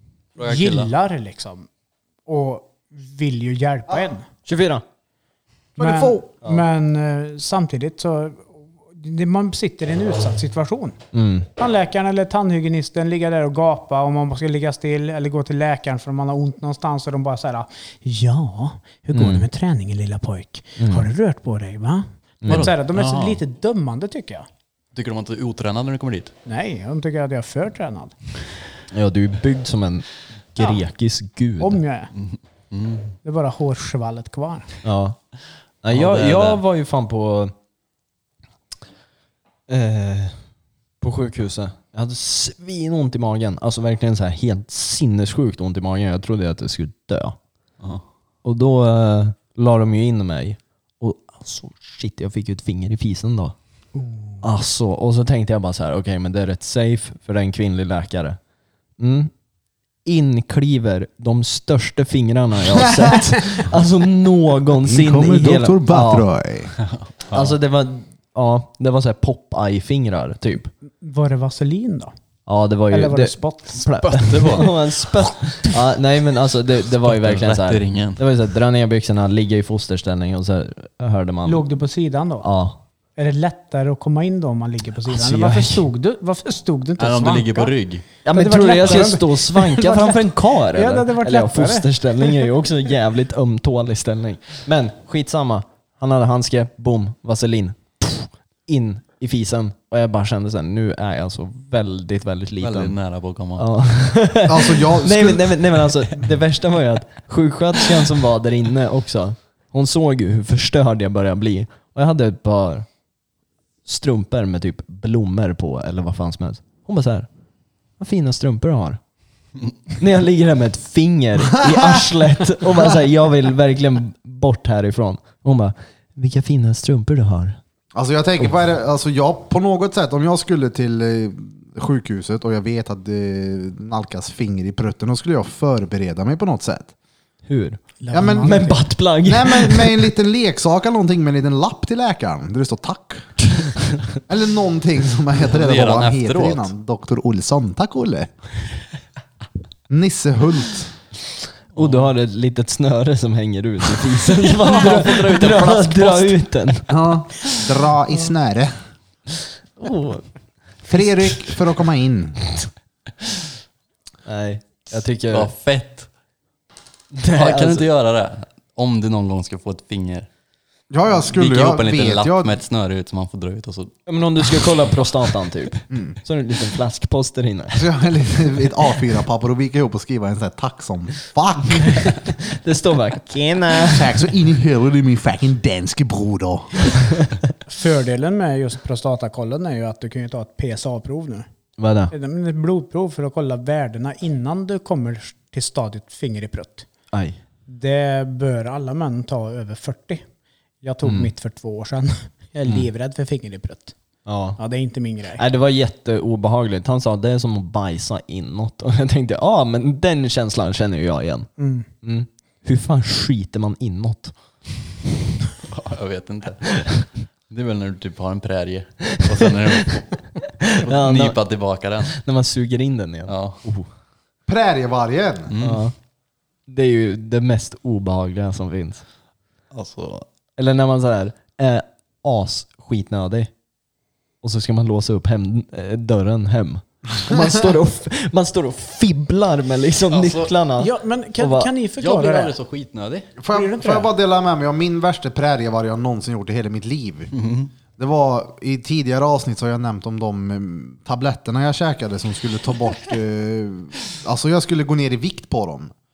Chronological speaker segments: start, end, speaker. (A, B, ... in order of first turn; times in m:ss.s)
0:00.4-0:00.9 A
0:00.4-0:01.7 B
0:02.3-0:04.2 B
0:04.5-0:04.8 C
0:05.8-0:06.2 D
0:05.8-0:11.0 B
0:11.1-0:11.5 C
0:11.6-0:24.5 B
0:19.1-0:19.5 C
0:20.8-0:21.1 C
0:22.4-0:22.7 C
0:22.5-0:23.4 A
0:24.9-0:26.3 A
0:26.5-0:28.1 B
0:28.9-0:31.8 C
0:31.6-0:32.1 B
0:32.2-0:33.2 A
0:33.2-0:34.7 B
0:34.8-0:35.2 C
0:35.8-0:37.5 C
0:35.9-0:36.6 A
0:39.7-0:40.4 C
0:41.0-0:47.4 C
0:48.4-0:53.6 C
0:54.0-0:54.4 B
0:54.4-0:58.4 C
0:59.0-0:59.3 C
1:00.0-1:06.3 C
1:02.8-1:03.1 D
1:04.8-1:06.8 D
1:07.3-1:10.7 C
1:11.0-1:12.1 B
1:12.5-1:21.7 C
1:12.9-1:14.6 B
1:14.1-1:14.8 A
1:17.0-1:18.2 A
1:21.4-1:22.5 B
1:22.4-1:22.8 C
1:23.2-1:27.7 B
1:25.1-1:25.8 C
1:27.0-1:28.1 A
1:28.2-1:43.0 C
1:28.3-1:32.5 B
1:42.6-1:43.7 A
1:43.6-1:52.9 C
1:44.5-1:45.6 D
1:53.9-1:57.3 C
1:58.0-1:59.0 C
2:00.0-2:07.6 C
2:01.5-2:02.1 D
2:08.0-2:16.9 D
2:17.5-2:20.0 C
2:18.0-2:18.8 B
2:18.1-2:23.4 D
2:24.1-2:28.3 D
2:25.4-2:26.7 A
2:29.9-2:30.9 D
2:31.8-2:32.1 A
2:31.8-2:36.9 C
2:34.2-2:36.4 A
2:36.9-2:38.7 D
2:39.8-2:40.2 C
2:40.8-2:42.4 D
2:44.3-2:45.5 C
2:45.3-2:46.1 A
2:47.1-2:47.9 C
2:47.3-2:50.3 A
2:50.9-2:52.6 D
2:51.2-2:54.0 A
2:54.1-2:57.8 C
2:55.9-2:56.2 D
2:57.7-3:02.1 D
3:01.9-3:04.2 C
3:03.8-3:06.9 D
3:07.7-3:11.5 B
3:11.8-3:12.1 C
3:12.1-3:16.9 B
3:17.1-3:17.4 C
3:17.7-3:20.2 B
3:20.8-3:23.9 B
3:21.0-3:21.3 C
3:24.3-3:24.6 C
3:24.6-3:25.4 B
3:25.4-3:31.5 C
3:31.6-3:31.9 B
3:32.0-3:34.3 C
3:35.7-3:36.8 A
3:36.8-3:37.0 C
3:37.5-3:40.2 A
3:40.6-3:41.4 C
3:40.8-3:42.2 A
3:42.1-3:43.9 C
3:43.3-3:43.6 A
3:44.5-3:45.5 D
3:45.5-3:45.8 A
3:45.6-3:45.9 C
3:46.7-3:49.0 C
3:49.7-3:50.3 A
3:50.6-3:53.5 C
3:54.4-4:01.7 C
4:00.1-4:00.5 A
4:00.8-4:02.5 B
4:02.0-4:03.3 A
4:03.4-4:07.3 D
4:03.5-4:04.1 B
4:07.3-4:07.7 A
4:08.0-4:15.9 D